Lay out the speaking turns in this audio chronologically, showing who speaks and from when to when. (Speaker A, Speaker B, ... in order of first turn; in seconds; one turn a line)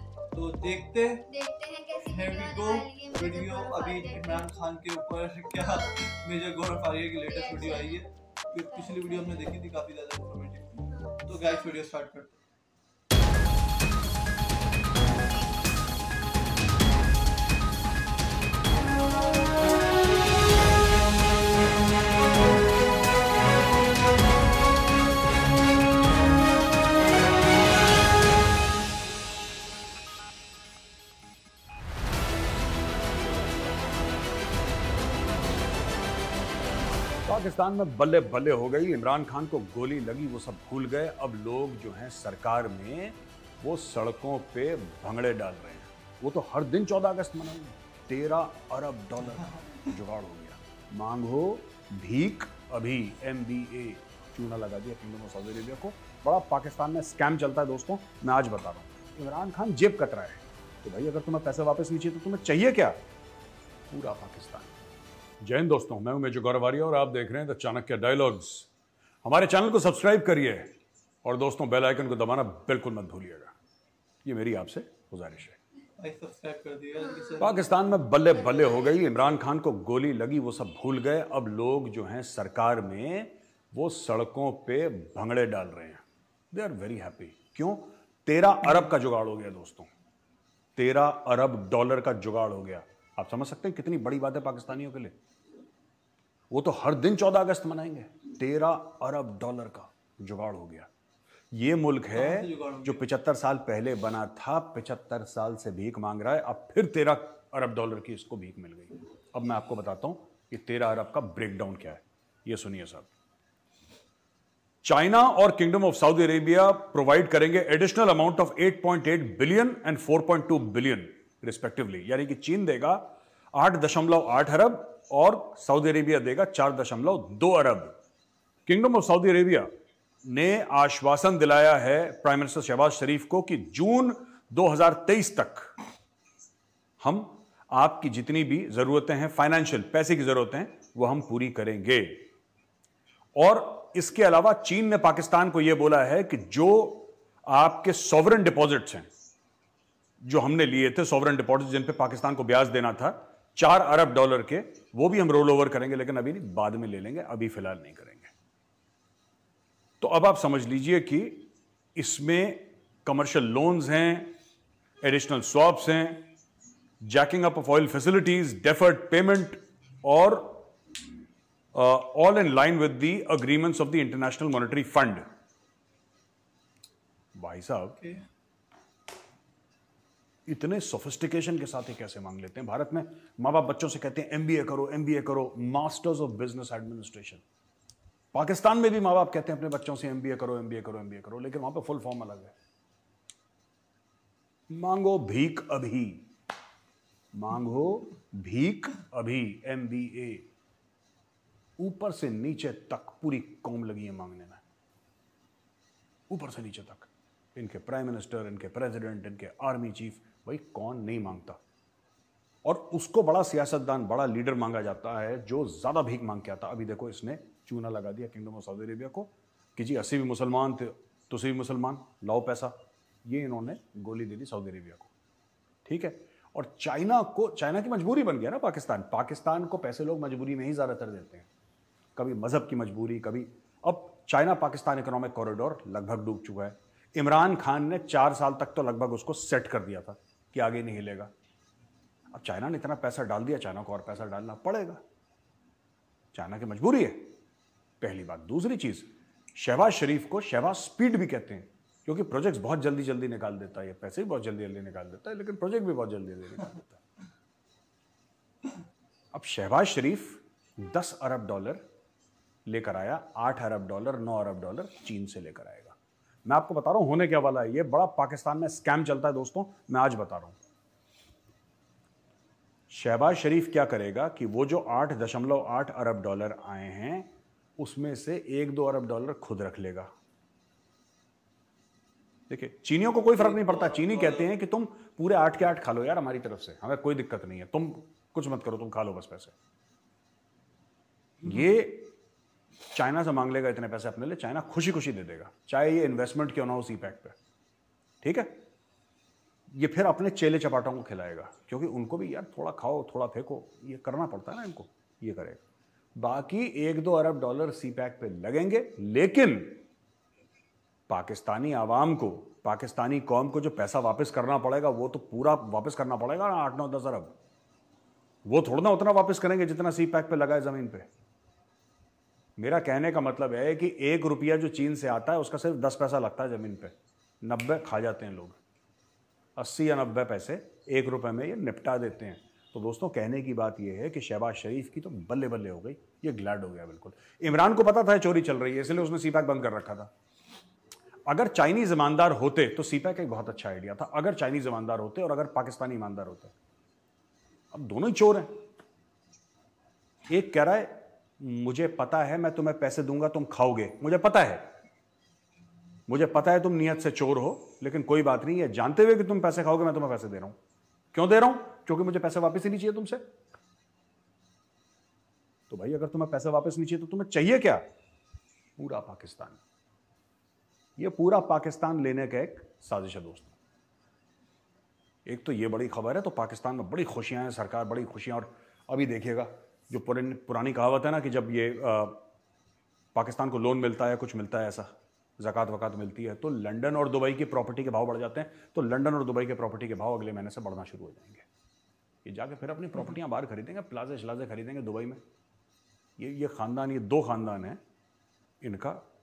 Speaker A: 0.3-1.2
Speaker B: 1.3-4.5
Speaker A: 2.0-12.3
Speaker B: 7.3-9.4
Speaker B: 10.9-11.7
Speaker C: 37.2-63.0
Speaker A: 49.5-49.8
Speaker C: 63.9-64.7
Speaker C: 65.4-68.7
Speaker C: 69.2-70.7
Speaker C: 71.2-73.5
Speaker C: 74.2-75.6
Speaker A: 76.0-77.7
Speaker C: 77.4-89.9
Speaker C: 90.8-95.1
Speaker C: 96.5-100.9
Speaker C: 101.5-113.1
Speaker A: 102.1-103.0
Speaker C: 114.8-127.9
Speaker C: 128.7-129.7
Speaker C: 130.2-135.7
Speaker C: 137.0-142.3
Speaker C: 143.3-149.1
Speaker C: 150.2-158.3
Speaker C: 160.0-164.3
Speaker C: 165.0-166.3
Speaker C: 167.0-170.7
Speaker C: 171.7-175.2
Speaker C: 177.3-178.0
Speaker A: 178.0-178.2
Speaker C: 180.4-187.4
Speaker C: 188.3-192.5
Speaker C: 194.7-196.3
Speaker C: 197.3-200.5
Speaker C: 201.8-204.6
Speaker C: 206.3-211.6
Speaker C: 212.6-225.1
Speaker C: 225.8-231.5
Speaker C: 232.2-241.3
Speaker C: 242.3-245.0
Speaker C: 246.3-247.4
Speaker C: 248.0-257.0
Speaker C: 259.3-261.8
Speaker C: 262.6-270.6
Speaker C: 272.9-280.1
Speaker C: 282.5-289.5
Speaker A: 283.4-284.5
Speaker C: 291.4-292.1
Speaker C: 292.9-297.4
Speaker C: 298.2-298.6
Speaker C: 299.7-305.6
Speaker C: 306.1-309.8
Speaker C: 311.1-317.3
Speaker C: 318.4-321.1
Speaker C: 322.6-328.6
Speaker C: 329.6-340.1
Speaker C: 341.2-346.5
Speaker C: 347.7-348.6
Speaker C: 350.3-354.7
Speaker C: 356.1-360.6
Speaker C: 361.1-363.3
Speaker C: 365.7-367.8
Speaker C: 368.8-369.6
Speaker C: 371.0-373.5
Speaker C: 375.2-382.2
Speaker C: 383.1-391.4
Speaker C: 392.2-395.2
Speaker C: 396.2-397.8
Speaker C: 398.6-399.0